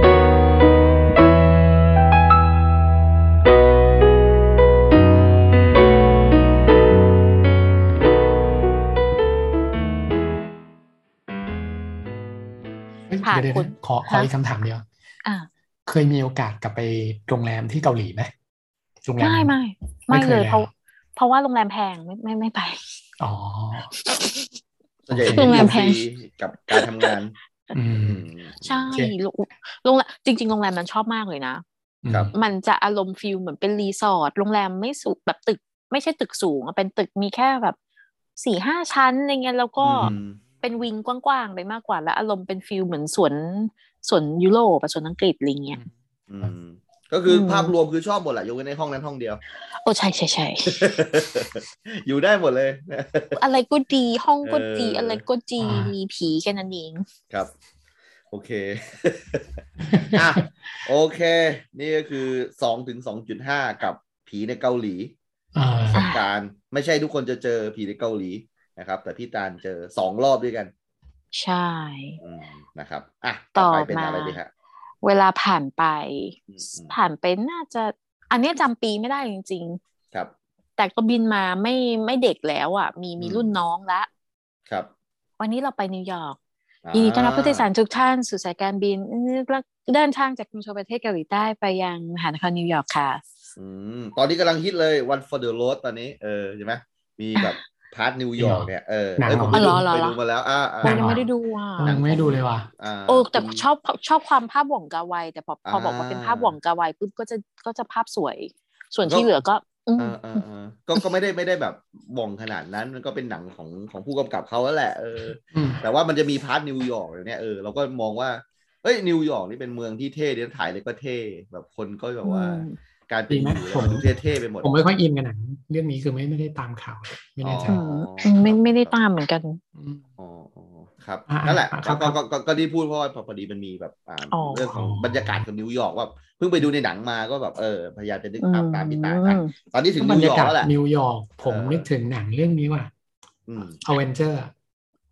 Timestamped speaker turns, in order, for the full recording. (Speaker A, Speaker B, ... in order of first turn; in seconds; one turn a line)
Speaker A: 13.1-14.8
Speaker B: 13.2-14.3
Speaker A: 15.9-18.3
Speaker A: 19.0-19.5
Speaker B: 19.2-22.8
Speaker A: 20.1-20.7
Speaker A: 23.2-23.9
Speaker B: 24.0-24.5
Speaker C: 25.1-27.4
Speaker A: 25.1-25.8
Speaker B: 25.3-26.0
Speaker B: 26.7-27.1
Speaker A: 27.7-28.2
Speaker C: 28.0-28.9
Speaker B: 28.6-31.6
Speaker A: 32.0-32.3
Speaker B: 32.3-37.8
Speaker B: 38.4-40.1
Speaker C: 39.8-40.4
Speaker B: 40.6-45.8
Speaker C: 46.3-49.4
Speaker B: 47.3-47.7
Speaker B: 49.8-50.8
Speaker C: 50.6-53.4
Speaker B: 53.3-57.0
Speaker C: 54.4-55.2
Speaker A: 55.6-55.9
Speaker C: 58.3-65.1
Speaker A: 59.9-60.4
Speaker A: 65.5-66.0
Speaker C: 65.9-70.7
Speaker B: 65.9-66.2
Speaker B: 71.3-72.2
Speaker C: 72.2-74.5
Speaker B: 73.5-74.4
Speaker B: 75.0-79.8
Speaker C: 76.5-76.9
Speaker B: 80.8-84.1
Speaker C: 83.2-83.5
Speaker B: 85.4-86.4
Speaker C: 86.8-87.7
Speaker B: 86.9-93.2
Speaker C: 93.5-101.2
Speaker A: 98.4-99.8
Speaker B: 99.5-100.2
Speaker A: 100.8-101.2
Speaker B: 100.8-102.0
Speaker A: 101.8-102.7
Speaker C: 101.8-103.6
Speaker B: 103.1-110.4
Speaker C: 105.6-106.5
Speaker C: 109.0-109.3
Speaker C: 110.0-124.7
Speaker A: 115.5-115.8
Speaker B: 122.2-122.8
Speaker A: 123.3-124.1
Speaker A: 124.6-127.8
Speaker C: 127.4-129.0
Speaker B: 127.7-129.6
Speaker A: 129.8-130.0
Speaker C: 130.2-140.7
Speaker A: 131.3-132.2
Speaker B: 134.3-134.7
Speaker A: 134.7-135.4
Speaker B: 138.4-139.5
Speaker A: 140.0-142.9
Speaker C: 141.4-141.8
Speaker C: 143.5-143.8
Speaker A: 143.7-144.5